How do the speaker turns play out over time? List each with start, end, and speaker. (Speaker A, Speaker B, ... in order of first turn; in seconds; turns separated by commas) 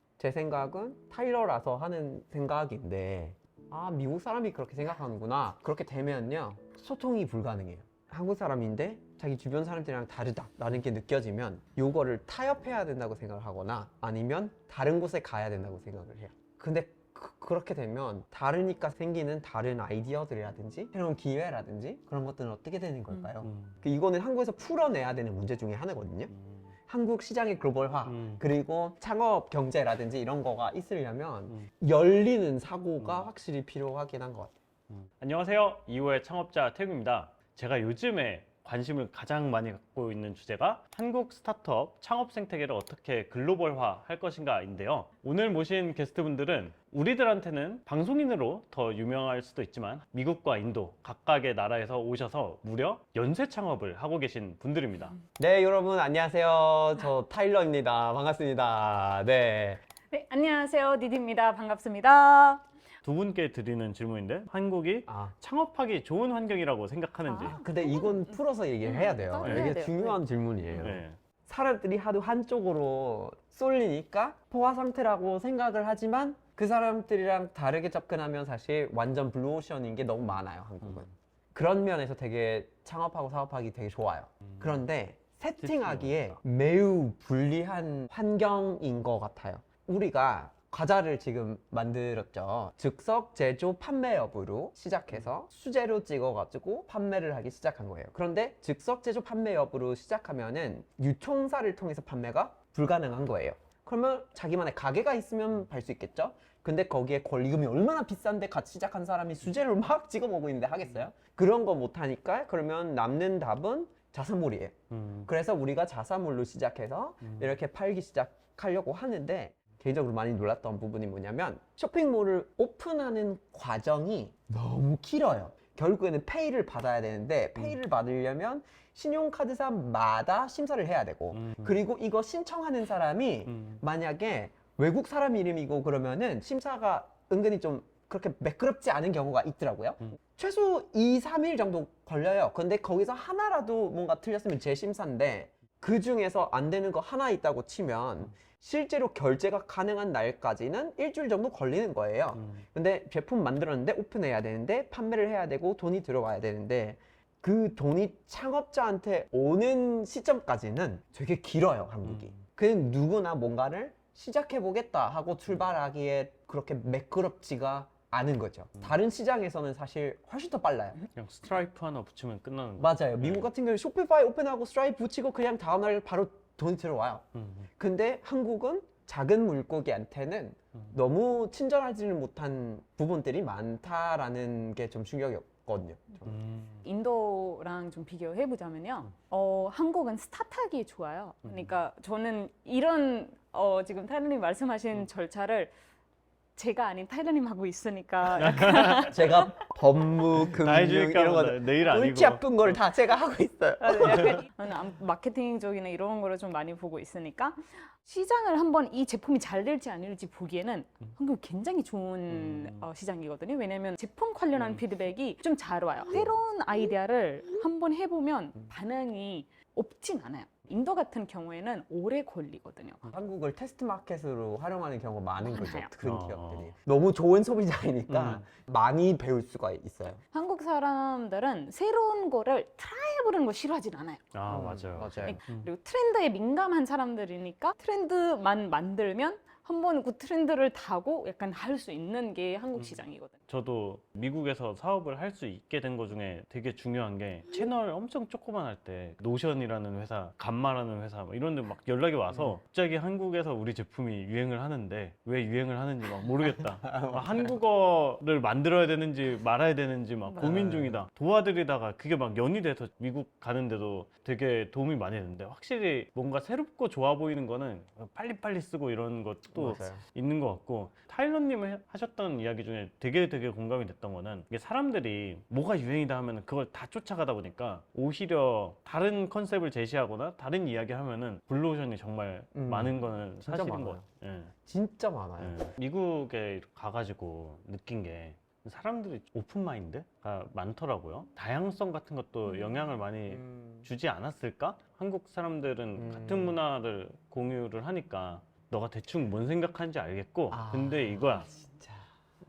Speaker A: 0.2-26.3, Speaker B: 23.4-23.8, Speaker B: 26.3-26.7, Speaker A: 26.9-34.5, Speaker B: 28.0-28.5, Speaker B: 33.0-33.3, Speaker B: 34.9-55.2, Speaker A: 55.4-59.8, Speaker C: 60.1-62.6, Speaker B: 63.0-67.5, Speaker A: 65.1-65.4, Speaker C: 67.3-70.2, Speaker A: 67.4-171.0, Speaker B: 69.4-69.8, Speaker B: 70.7-71.2, Speaker B: 80.8-81.1, Speaker B: 84.5-84.8, Speaker B: 85.6-86.4, Speaker B: 114.9-115.3, Speaker B: 117.2-117.6, Speaker B: 131.3-131.8, Speaker B: 133.4-133.8, Speaker B: 152.3-152.6, Speaker B: 162.0-162.4, Speaker B: 171.1-173.5, Speaker A: 172.8-177.3, Speaker B: 177.3-177.7, Speaker A: 177.8-186.4, Speaker B: 186.2-186.9, Speaker C: 186.8-195.7, Speaker B: 191.4-191.7, Speaker C: 196.6-199.5, Speaker B: 198.4-199.2, Speaker A: 199.0-204.4, Speaker B: 200.3-202.8, Speaker C: 203.8-223.1, Speaker B: 212.3-212.9, Speaker B: 214.6-214.8, Speaker A: 223.1-230.2, Speaker C: 225.4-225.9, Speaker B: 226.0-226.7, Speaker B: 228.1-228.4, Speaker C: 230.3-234.3, Speaker B: 234.3-235.7, Speaker A: 234.4-235.4, Speaker C: 235.2-243.3, Speaker B: 242.7-284.5, Speaker A: 256.8-257.5, Speaker A: 260.4-261.0, Speaker A: 269.5-270.0, Speaker A: 282.5-284.1, Speaker A: 284.6-285.6, Speaker B: 285.4-301.5, Speaker C: 292.5-292.8, Speaker A: 293.3-293.9, Speaker A: 295.9-296.6, Speaker A: 300.5-302.1